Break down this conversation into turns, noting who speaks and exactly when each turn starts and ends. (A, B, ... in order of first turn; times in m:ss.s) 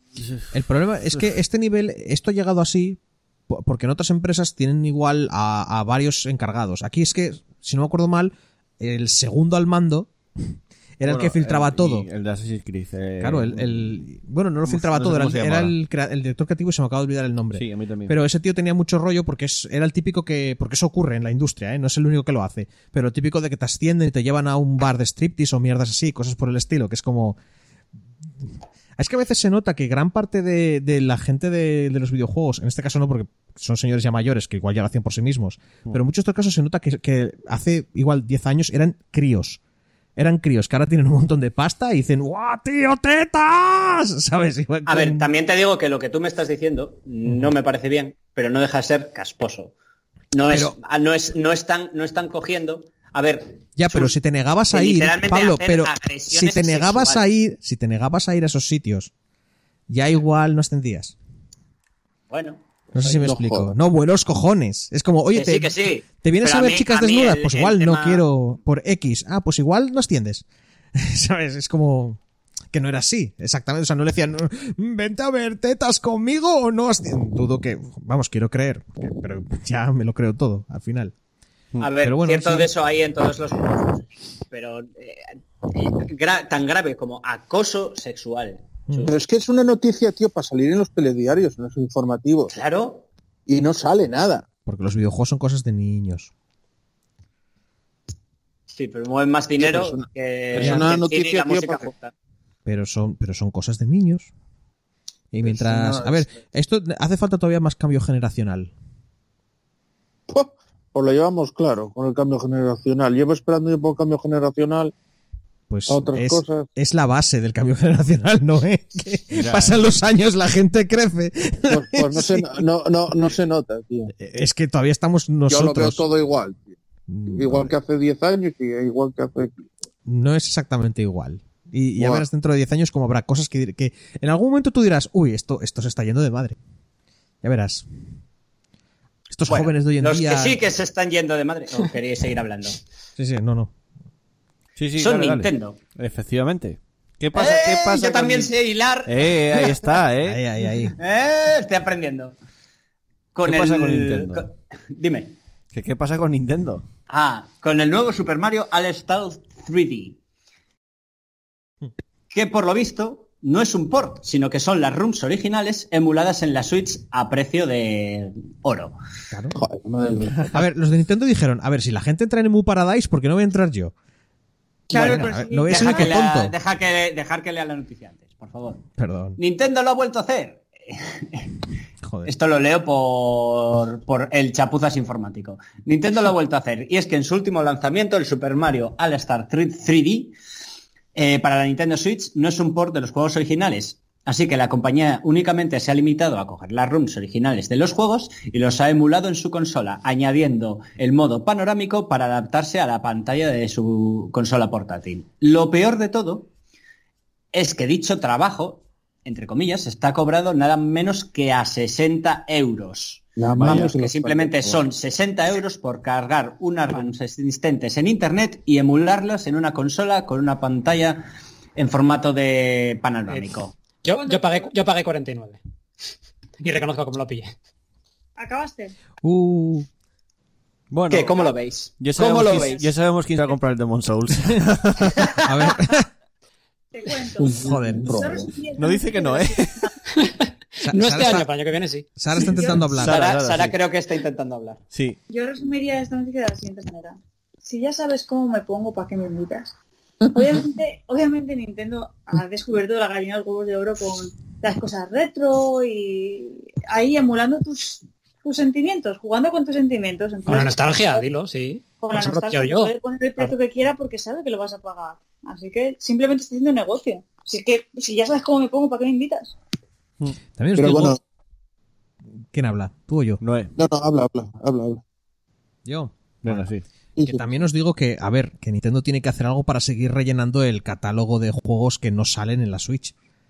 0:00.2-0:00.5 A
0:00.5-0:12.1 B
0:11.0-0:14.0 A
0:13.2-0:27.4 B
0:14.7-0:15.7 A
0:17.5-0:18.2 A
0:29.0-0:39.6 B
0:40.2-0:45.3 B
0:44.8-0:49.7 C
0:50.3-0:54.2 C
0:50.5-0:50.8 B
0:53.8-0:59.1 B
0:54.7-0:57.3 C
0:59.9-1:01.1 B
1:02.3-1:02.6 C
1:02.9-1:10.4 B
1:03.0-1:03.7 D
1:05.3-1:08.2 C
1:10.9-1:12.2 B
1:12.7-1:21.1 B
1:21.8-1:29.1 C
1:22.0-1:22.7 B
1:29.0-1:32.5 D
1:32.5-1:33.1 C
1:33.5-1:34.4 D
1:34.6-1:36.3 B
1:38.7-1:42.1 C
1:39.6-1:41.9 D
1:40.6-1:40.9 B
1:42.6-1:44.3 B
1:45.3-1:48.7 B
1:45.4-1:46.3 D
1:50.3-1:54.9 D
1:55.7-2:02.6 B
1:55.9-1:56.7 D
1:59.3-1:59.8 A
2:01.7-2:04.1 D
2:04.2-2:06.0 B
2:05.5-2:06.8 D
2:07.1-2:07.7 B
2:07.3-2:09.6 D
2:10.0-2:16.6 B
2:12.0-2:12.2 D
2:17.4-2:17.9 B
2:19.3-2:20.6 B
2:19.5-2:22.8 C
2:23.2-2:23.7 B
2:24.8-2:28.5 A
2:25.0-2:25.8 C
2:27.3-2:29.9 C
2:29.0-2:30.4 A
2:30.2-2:30.9 B
2:31.0-2:32.4 C
2:33.3-2:35.4 C
2:33.4-2:34.5 A
2:35.7-2:36.8 A
2:37.1-2:40.2 C
2:42.3-2:49.0 C
2:49.3-2:49.6 B
2:49.5-2:50.6 D
2:50.5-2:53.9 B
2:54.9-2:58.8 C
2:54.9-2:56.1 E
2:54.9-2:56.5 B
2:59.0-2:59.4 B
2:59.4-3:01.5 C
3:02.0-3:02.3 B
3:02.2-3:10.3 C
3:11.1-3:26.5 C
3:27.5-3:43.7 C
3:33.4-3:34.8 D
3:33.5-3:33.9 A
3:44.0-3:45.6 F
3:44.1-3:44.7 E
3:46.6-3:47.5 F
3:48.4-3:48.9 E
3:49.2-3:49.9 B
3:50.9-3:51.5 A
3:51.1-3:52.8 C
3:52.0-3:55.4 A
3:55.4-3:56.1 B
3:56.9-3:59.9 E
3:57.4-3:58.5 D
3:57.5-3:58.3 B
3:58.8-3:59.9 A
4:00.2-4:02.2 F
4:00.8-4:01.5 B
4:02.2-4:03.2 B
4:02.4-4:02.8 E
4:02.4-4:03.7 A
4:03.0-4:04.8 C
4:04.9-4:05.2 A
4:05.3-4:09.7 E
4:10.3-4:21.2 E
4:20.4-4:23.5 F
4:21.9-4:29.6 E
4:30.6-4:31.2 B
4:30.8-4:31.2 D
4:32.5-4:33.4 B
4:33.4-4:33.7 A
4:33.8-4:35.0 D
4:35.8-4:36.7 B
4:36.4-4:36.8 A
4:37.2-4:37.4 D
4:37.2-4:43.1 B